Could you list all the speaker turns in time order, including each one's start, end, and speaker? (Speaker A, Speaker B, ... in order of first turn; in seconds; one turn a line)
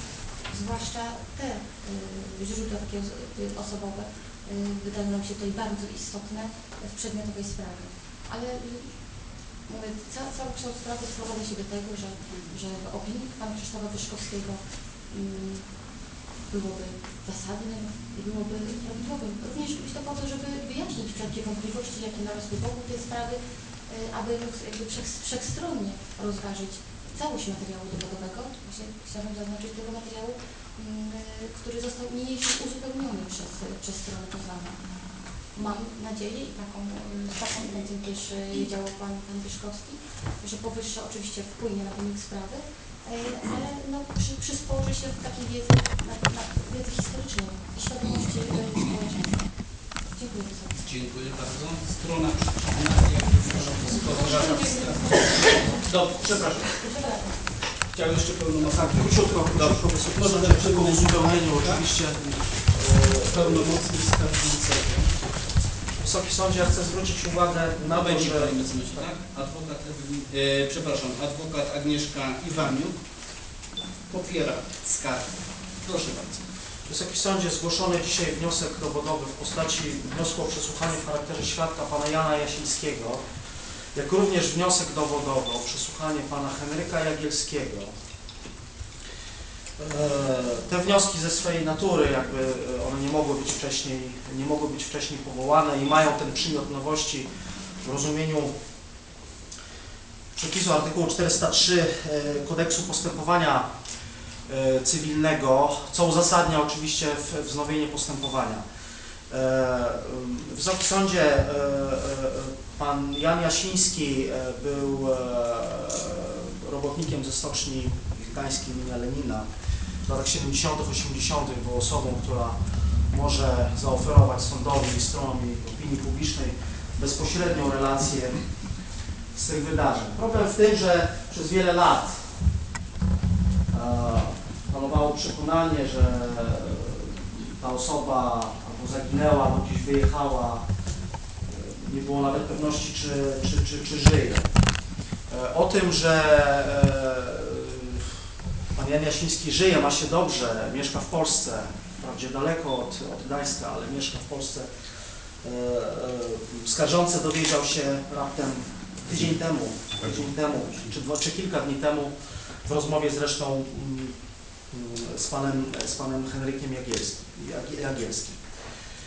Speaker A: 0.5-9.0
Speaker A: 9.7-15.7
Speaker A: 16.5-34.8
Speaker A: 35.5-49.5
Speaker A: 50.1-50.8
Speaker B: 50.8-56.7
Speaker A: 54.0-55.9
Speaker A: 56.7-57.5
Speaker B: 57.9-65.1
Speaker C: 58.8-62.3
Speaker C: 62.9-63.6
Speaker C: 66.0-69.2
Speaker B: 67.8-72.9
Speaker B: 74.1-76.4
Speaker C: 76.9-83.2
Speaker C: 83.9-88.0
Speaker C: 89.8-97.3
Speaker C: 97.8-98.6
Speaker C: 100.3-103.7
Speaker C: 104.5-108.7
Speaker C: 109.3-119.5
Speaker C: 120.0-128.4
Speaker C: 129.3-132.2
Speaker C: 133.7-140.7
Speaker C: 141.5-144.5
Speaker C: 145.3-148.1
Speaker C: 148.7-154.7
Speaker C: 155.4-162.1
Speaker C: 162.7-164.2
Speaker C: 164.7-168.4